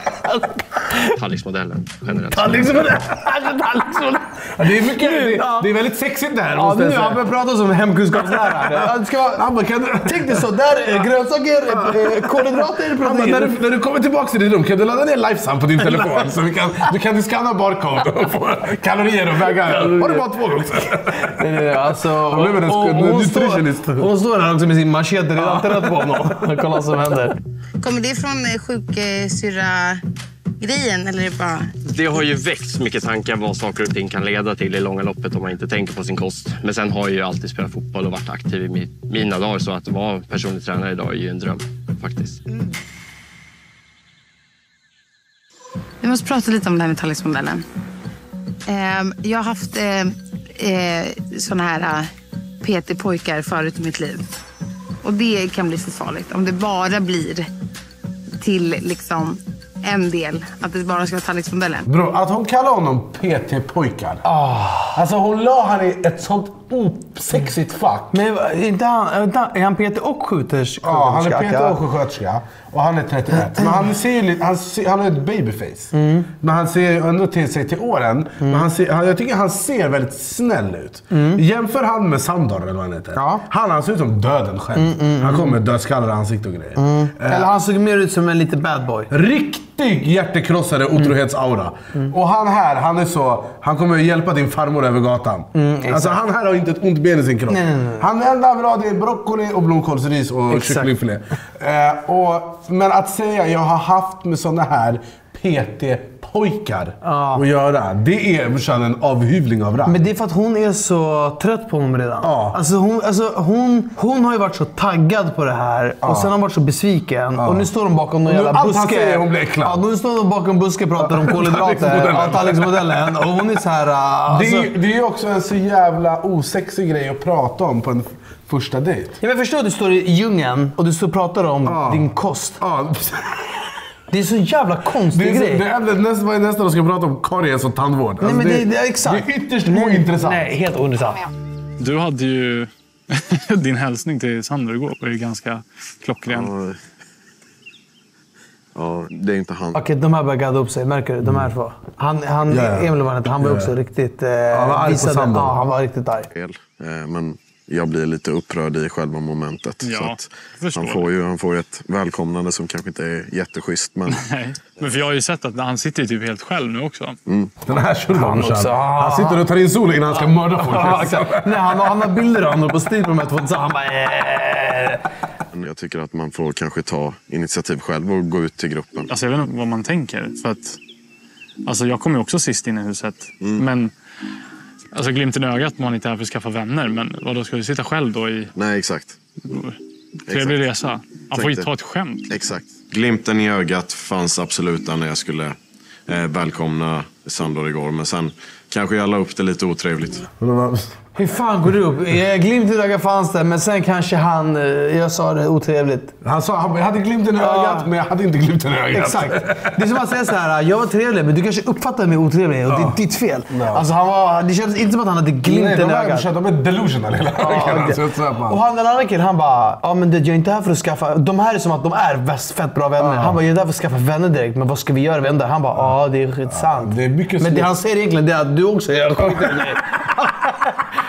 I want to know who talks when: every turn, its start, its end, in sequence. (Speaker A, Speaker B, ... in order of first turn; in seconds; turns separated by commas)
Speaker A: 0.2-1.1, Speaker B: 1.1-2.9, Speaker A: 2.3-5.7, Speaker C: 4.6-7.2, Speaker A: 6.5-9.4, Speaker C: 8.2-10.4, Speaker A: 10.0-13.6, Speaker C: 11.7-24.1, Speaker A: 15.8-16.3, Speaker A: 19.6-20.3, Speaker A: 21.1-27.4, Speaker C: 25.4-26.4, Speaker D: 27.8-30.0, Speaker D: 30.6-31.7, Speaker B: 31.8-42.4, Speaker D: 46.0-47.6, Speaker D: 48.7-52.1, Speaker D: 52.6-54.3, Speaker D: 55.0-57.5, Speaker D: 58.4-61.9, Speaker C: 61.8-64.2, Speaker A: 64.2-65.0, Speaker C: 64.9-68.2, Speaker A: 68.1-71.8, Speaker C: 70.8-87.5, Speaker A: 73.4-73.8, Speaker A: 75.9-76.3, Speaker A: 81.1-81.4, Speaker A: 83.2-83.4, Speaker A: 84.8-85.6, Speaker A: 86.8-89.1, Speaker C: 89.1-110.0, Speaker A: 95.5-96.2, Speaker A: 97.5-98.1, Speaker A: 100.5-100.9, Speaker A: 107.0-107.4, Speaker A: 109.8-124.7, Speaker C: 112.2-112.6, Speaker C: 116.0-116.3, Speaker C: 117.4-117.7, Speaker C: 118.2-119.8, Speaker C: 121.0-122.8, Speaker C: 124.3-129.2, Speaker A: 129.2-132.6, Speaker C: 131.6-133.6, Speaker A: 134.1-135.6, Speaker C: 135.1-140.5, Speaker A: 138.2-141.2, Speaker E: 141.8-146.5, Speaker F: 146.3-146.8, Speaker F: 148.7-149.8, Speaker A: 149.7-156.3, Speaker C: 151.2-151.5, Speaker C: 152.5-153.7, Speaker C: 154.5-155.6, Speaker F: 156.3-164.2, Speaker E: 159.8-161.1, Speaker E: 164.1-167.2, Speaker F: 164.8-165.0, Speaker F: 167.3-167.6, Speaker C: 167.6-171.9, Speaker A: 168.1-169.4, Speaker A: 170.1-175.0, Speaker F: 175.5-179.1, Speaker E: 179.1-180.8, Speaker E: 181.6-183.9, Speaker E: 184.9-188.5, Speaker F: 188.5-189.2, Speaker E: 189.4-192.3, Speaker F: 190.3-190.7, Speaker F: 191.3-191.7, Speaker F: 192.3-195.6, Speaker F: 196.1-200.2, Speaker C: 200.4-201.0, Speaker A: 201.2-206.1, Speaker C: 206.2-209.8, Speaker A: 207.4-207.9, Speaker A: 208.9-216.3, Speaker C: 212.7-213.8, Speaker C: 215.4-218.6, Speaker A: 217.4-230.8, Speaker C: 223.0-223.4, Speaker C: 226.5-227.7, Speaker C: 229.2-229.7